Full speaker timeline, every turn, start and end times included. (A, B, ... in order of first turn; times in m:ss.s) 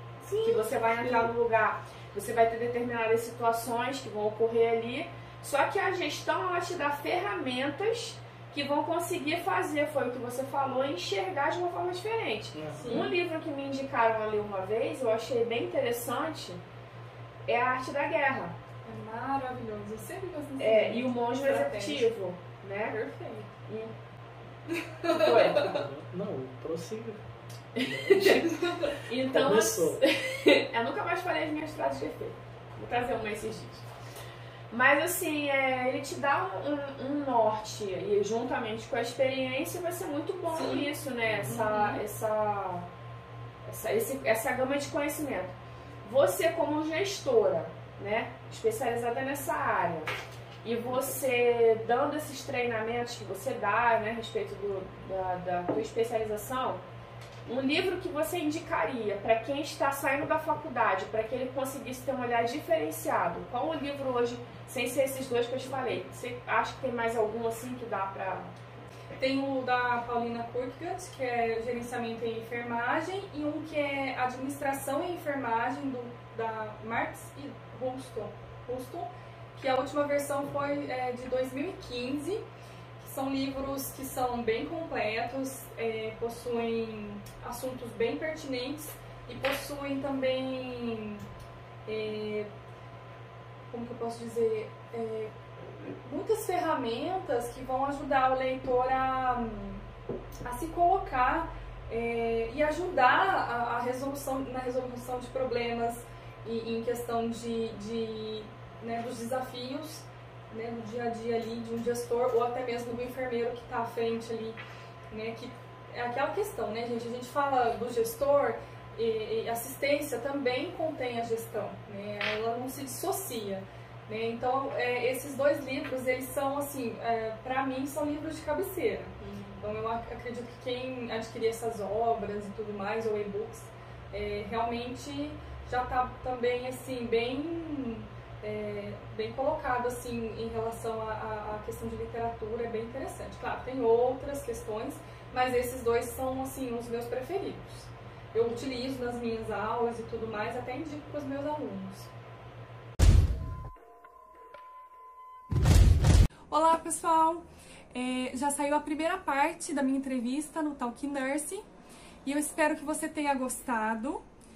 0:00.2-0:01.3 A
0:00.4-0:16.6 B
0:12.5-0:13.0 C
0:12.7-0:13.1 A
0:17.5-0:18.5 B
0:18.8-0:22.1 A
0:20.6-0:23.0 B
0:22.9-0:23.5 A
0:24.7-0:25.8 A
0:25.1-0:25.7 B
0:25.5-0:27.2 C
0:27.7-0:33.8 B
0:27.8-0:28.5 C
0:28.3-0:29.0 A
0:29.3-0:30.0 C
0:34.7-0:42.9 B
0:40.5-0:40.9 A
0:41.3-0:41.6 C
0:41.4-0:42.0 A
0:43.6-0:45.5 B
0:46.0-0:50.1 B
0:50.6-0:56.8 B
0:57.4-1:08.5 B
1:09.1-1:22.4 A
1:23.0-1:31.2 A
1:31.8-1:32.5 A
1:33.7-1:35.3 A
1:35.9-1:39.8 A
1:40.4-1:54.6 A
1:55.1-2:32.1 A
2:09.2-2:09.6 B
2:36.5-2:41.6 A
2:42.2-2:44.2 A